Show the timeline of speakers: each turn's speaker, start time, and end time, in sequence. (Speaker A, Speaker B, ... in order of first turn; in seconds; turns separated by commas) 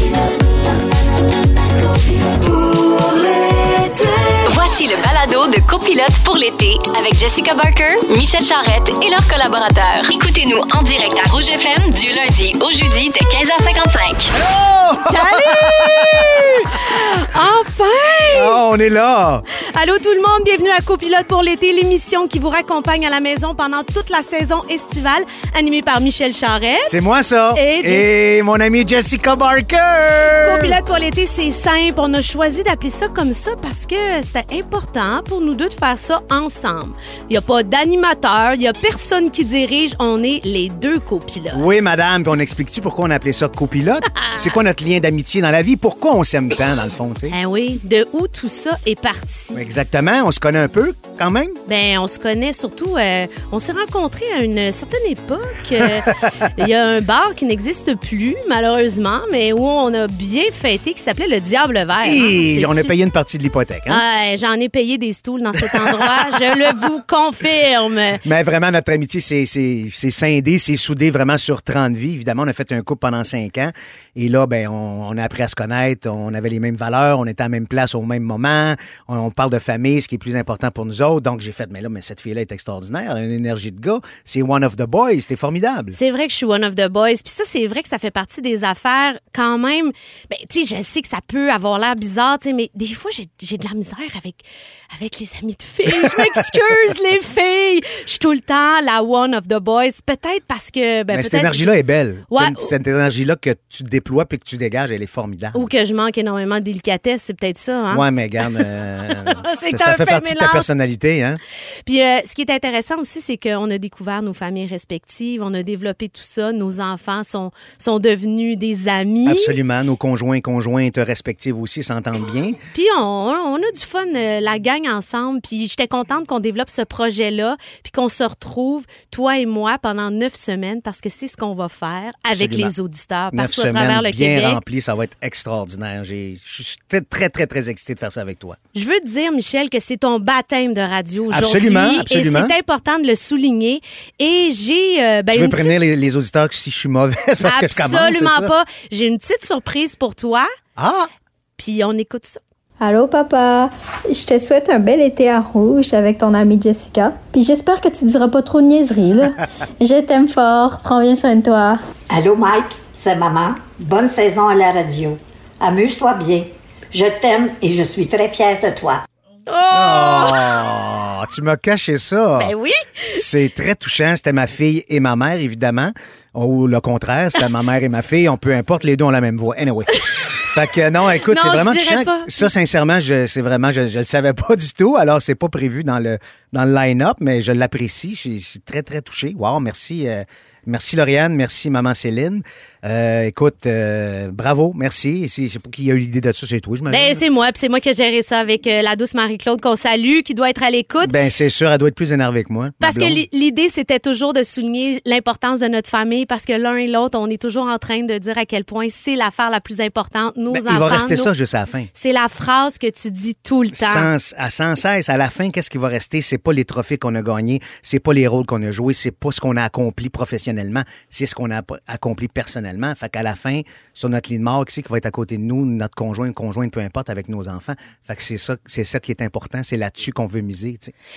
Speaker A: 4.4-14.3, Speaker B: 14.4-16.6, Speaker C: 15.0-18.6, Speaker B: 18.3-19.4, Speaker C: 19.6-26.9, Speaker B: 26.9-30.8, Speaker C: 27.5-28.1, Speaker C: 30.4-41.8, Speaker B: 41.5-47.3, Speaker C: 44.1-44.6, Speaker C: 47.3-49.7, Speaker B: 49.5-51.6, Speaker C: 51.7-62.9, Speaker B: 56.1-56.4, Speaker B: 62.0-64.0, Speaker C: 63.9-68.2, Speaker B: 65.6-66.4, Speaker B: 68.2-86.0, Speaker C: 85.9-102.7, Speaker B: 95.9-96.4, Speaker B: 101.1-105.7, Speaker C: 105.5-108.6, Speaker B: 107.9-111.4, Speaker C: 109.3-110.7, Speaker C: 111.8-119.6, Speaker B: 119.2-122.6, Speaker C: 122.7-134.6, Speaker B: 132.3-132.7, Speaker B: 133.3-138.6, Speaker C: 138.7-145.7, Speaker B: 141.3-142.5, Speaker B: 145.3-148.5, Speaker C: 147.4-150.5, Speaker B: 150.8-151.1, Speaker C: 151.6-152.4, Speaker D: 152.8-161.8, Speaker E: 162.1-169.0, Speaker C: 169.5-170.5, Speaker B: 169.7-172.5, Speaker C: 172.3-173.2, Speaker B: 173.0-197.2, Speaker C: 181.3-182.5, Speaker C: 196.9-201.1, Speaker B: 201.0-203.2, Speaker C: 202.8-211.3, Speaker B: 210.5-211.9, Speaker C: 211.9-214.1, Speaker B: 213.7-230.9